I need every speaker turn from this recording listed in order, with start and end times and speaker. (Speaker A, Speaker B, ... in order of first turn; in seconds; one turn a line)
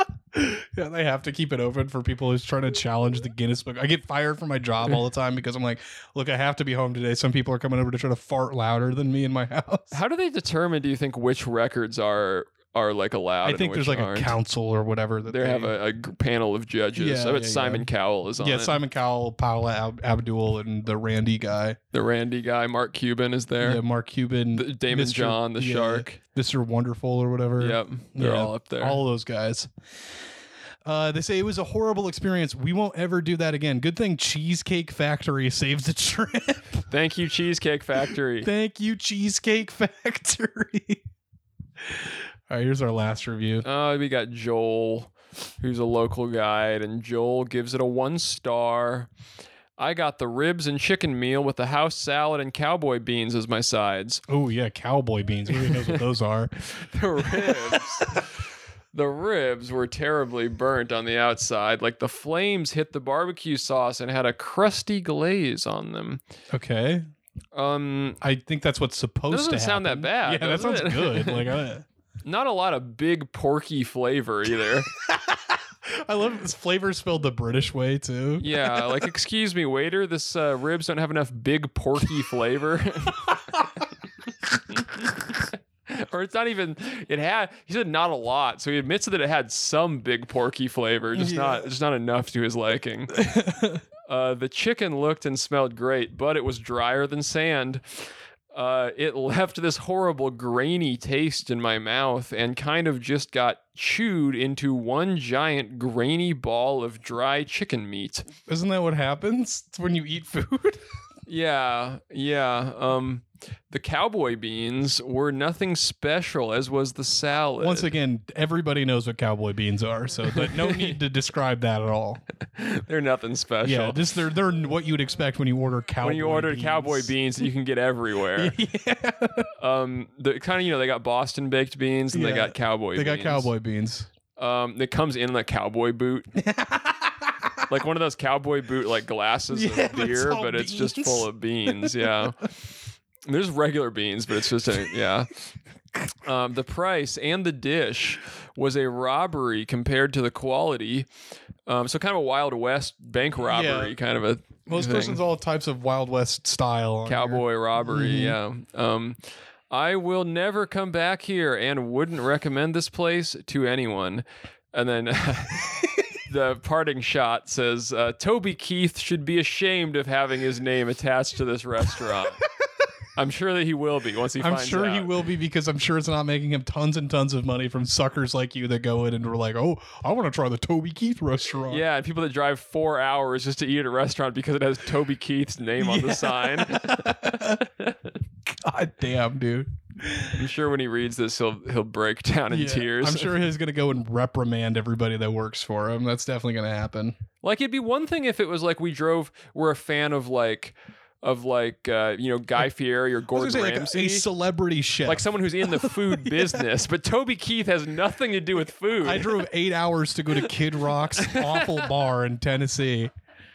Speaker A: 0.3-10.0
Speaker B: 9.9-14.3
Speaker A: 13.4-15.7
Speaker B: 15.2-18.8
Speaker A: 16.9-21.8
Speaker B: 21.9-23.8
Speaker A: 23.6-29.7
Speaker B: 24.5-26.2
Speaker B: 27.6-29.0
Speaker A: 30.8-36.8
Speaker B: 36.9-38.5
Speaker A: 38.4-41.0
Speaker A: 41.8-43.6
Speaker B: 43.6-49.1
Speaker B: 49.8-54.2
Speaker A: 54.3-56.5
Speaker B: 55.5-56.0
Speaker B: 56.6-58.4
Speaker A: 57.2-58.3
Speaker B: 58.9-66.2
Speaker A: 66.5-67.1
Speaker B: 67.5-68.2
Speaker A: 68.2-71.8
Speaker B: 69.3-71.6
Speaker B: 72.2-74.9
Speaker A: 74.8-79.1
Speaker B: 78.4-83.6
Speaker A: 83.3-83.8
Speaker B: 84.7-93.2
Speaker A: 91.1-91.7
Speaker A: 93.1-93.8
Speaker B: 94.0-98.0
Speaker B: 98.5-108.3
Speaker A: 108.5-110.8
Speaker B: 111.3-117.9
Speaker A: 117.6-122.2
Speaker B: 120.3-121.0
Speaker B: 122.4-124.0
Speaker A: 123.6-127.1
Speaker B: 126.0-128.5
Speaker A: 128.4-129.5
Speaker B: 129.6-133.5
Speaker A: 132.1-134.1
Speaker B: 134.4-136.3
Speaker A: 136.3-137.7
Speaker B: 137.7-142.5
Speaker A: 139.5-142.3
Speaker B: 143.3-145.3
Speaker B: 146.2-151.1
Speaker B: 151.7-155.2
Speaker A: 153.4-154.0
Speaker A: 154.7-158.4
Speaker B: 157.1-159.2
Speaker B: 159.7-172.4
Speaker A: 165.7-166.0
Speaker B: 173.2-175.1
Speaker A: 174.4-181.8
Speaker B: 181.7-187.9
Speaker A: 185.8-187.7
Speaker A: 188.4-190.4
Speaker B: 190.3-193.4
Speaker A: 192.5-197.2
Speaker B: 197.4-204.2
Speaker A: 203.3-206.6
Speaker B: 205.0-209.4
Speaker A: 209.0-213.1
Speaker B: 211.1-211.9